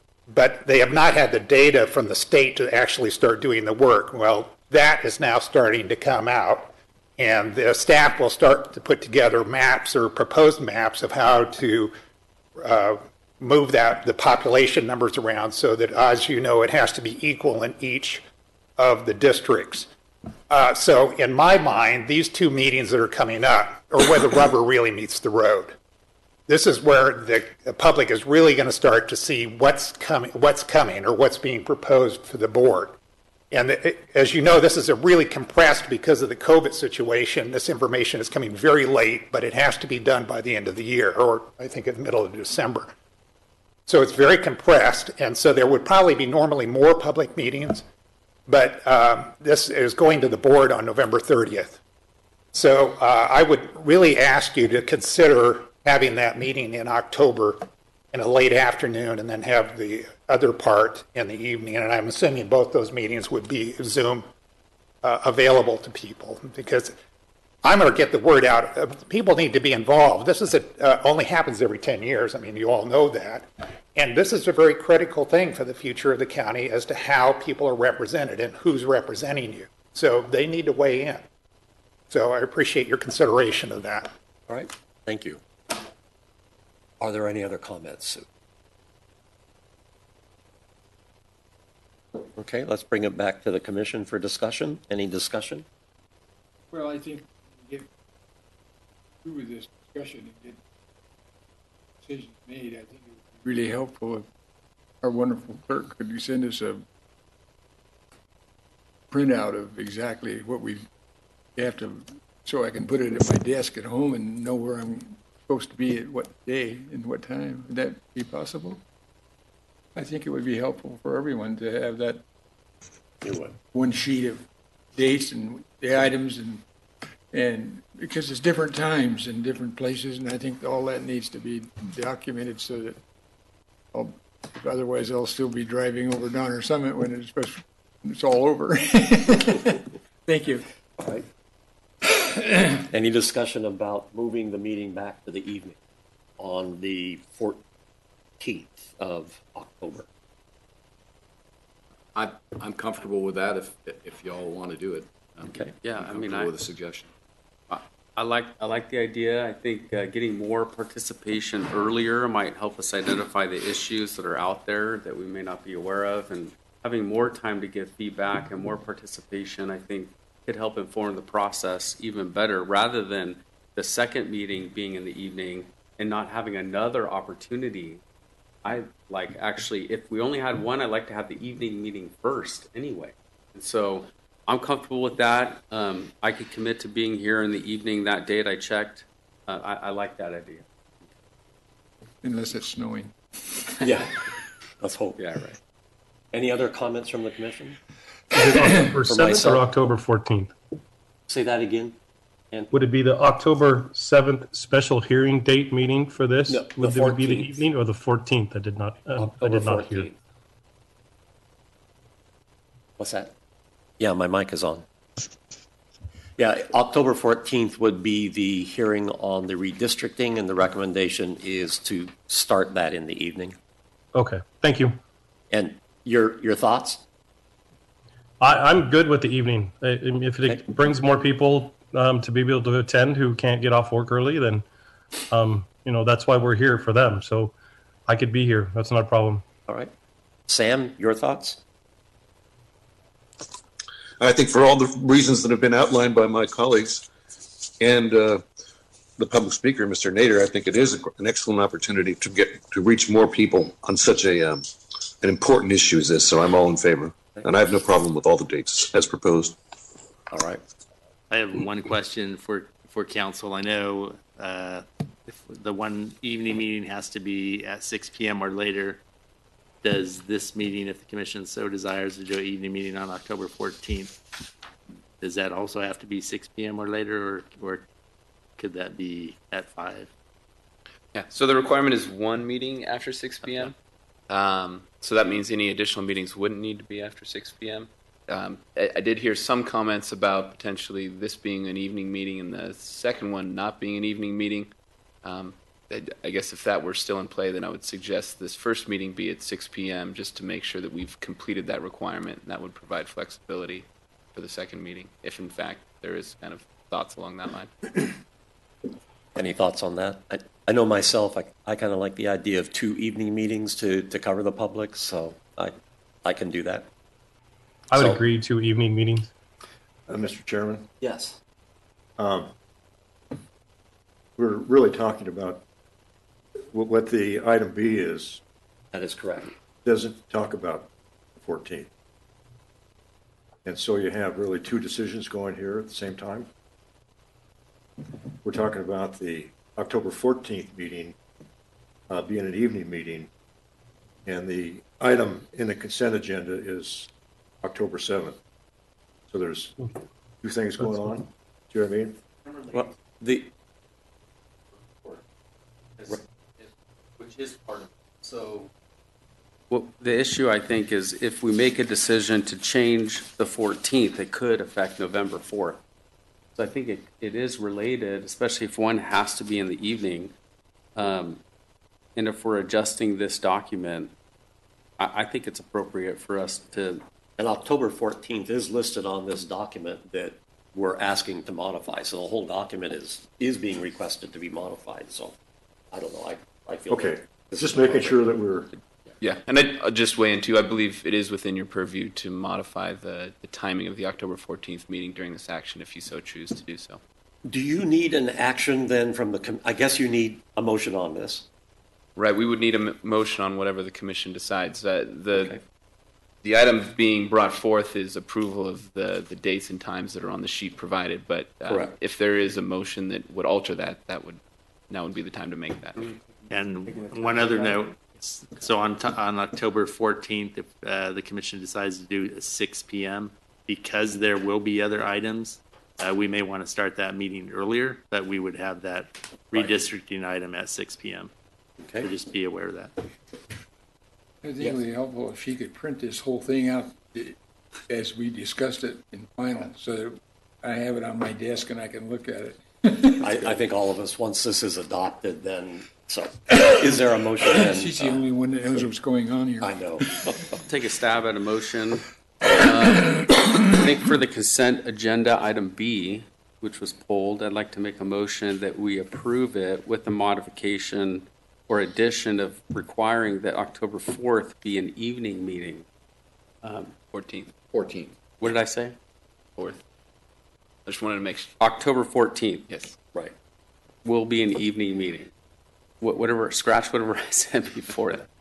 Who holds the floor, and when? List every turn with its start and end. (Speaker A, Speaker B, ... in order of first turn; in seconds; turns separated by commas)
Speaker A: 0.3-11.9, Speaker A: 12.6-18.2, Speaker A: 18.8-19.9, Speaker A: 20.5-25.8, Speaker A: 26.5-33.0, Speaker A: 33.5-42.9, Speaker A: 43.9-47.8, Speaker A: 48.5-51.8, Speaker A: 52.5-64.3, Speaker A: 65.0-66.9, Speaker A: 67.6-81.2, Speaker A: 82.1-84.1, Speaker B: 84.5-85.4, Speaker B: 87.0-88.2, Speaker B: 92.3-95.7, Speaker C: 96.7-97.9, Speaker C: 99.2-100.6, Speaker C: 102.0-104.3, Speaker C: 105.0-106.8, Speaker C: 109.1-110.9, Speaker C: 111.5-118.8, Speaker C: 119.9-122.2, Speaker B: 123.2-123.5, Speaker C: 123.7-126.6, Speaker C: 127.3-133.0, Speaker C: 133.9-140.6, Speaker B: 141.0-141.2, Speaker B: 142.9-145.8, Speaker B: 146.4-147.6, Speaker B: 148.4-150.1, Speaker D: 152.1-157.1, Speaker E: 155.8-156.5, Speaker E: 157.7-178.0, Speaker E: 178.6-190.6, Speaker C: 192.2-193.1, Speaker B: 193.8-194.2, Speaker B: 194.8-195.6, Speaker B: 196.3-197.8, Speaker F: 198.3-200.5, Speaker B: 198.8-199.7, Speaker B: 201.3-202.0, Speaker F: 202.7-210.1, Speaker B: 206.5-207.6, Speaker B: 209.2-210.1, Speaker B: 213.0-213.3, Speaker B: 214.0-214.8, Speaker B: 216.4-223.6, Speaker F: 224.1-225.0, Speaker B: 225.5-227.0, Speaker F: 228.4-234.6, Speaker F: 235.3-237.5, Speaker F: 238.1-239.4, Speaker B: 239.7-239.9, Speaker B: 240.5-241.6, Speaker G: 244.2-247.1, Speaker G: 247.8-248.4, Speaker G: 249.2-254.7, Speaker G: 255.2-259.6, Speaker B: 260.3-260.6, Speaker H: 261.3-269.0, Speaker H: 269.8-274.2, Speaker H: 275.2-277.9, Speaker H: 278.6-280.1, Speaker I: 281.1-283.7, Speaker I: 284.3-294.7, Speaker I: 295.2-307.7, Speaker B: 309.3-316.9, Speaker F: 317.9-319.3, Speaker B: 317.9-318.2, Speaker J: 320.1-320.9, Speaker B: 321.0-321.4, Speaker J: 322.2-322.5, Speaker J: 324.4-325.6, Speaker J: 326.7-328.4, Speaker B: 328.9-329.5, Speaker J: 329.8-331.9, Speaker J: 333.6-336.5, Speaker J: 338.4-341.1, Speaker J: 342.1-343.3, Speaker J: 344.2-347.1, Speaker J: 347.6-348.4, Speaker J: 349.3-349.9, Speaker J: 350.4-352.2, Speaker B: 352.7-353.5, Speaker E: 354.9-355.2, Speaker E: 356.0-358.7, Speaker E: 359.7-365.8, Speaker E: 366.5-370.3, Speaker E: 370.9-371.4, Speaker E: 372.1-374.1, Speaker E: 375.0-377.0, Speaker B: 377.4-385.4, Speaker B: 385.9-388.2, Speaker J: 386.9-388.7, Speaker I: 389.2-397.0, Speaker B: 397.4-401.4, Speaker I: 402.1-405.6, Speaker I: 406.4-416.1, Speaker B: 411.7-411.9, Speaker H: 416.5-431.3, Speaker H: 432.0-432.9, Speaker C: 434.4-437.4, Speaker C: 437.9-443.3, Speaker B: 443.2-448.2, Speaker C: 447.6-450.4, Speaker B: 449.6-450.6, Speaker E: 450.7-465.8, Speaker E: 466.6-467.0, Speaker I: 467.1-468.0, Speaker D: 467.7-468.1, Speaker E: 468.4-468.9, Speaker I: 470.8-471.5, Speaker E: 471.6-472.6, Speaker I: 472.7-472.9, Speaker E: 474.0-475.3, Speaker E: 476.0-478.3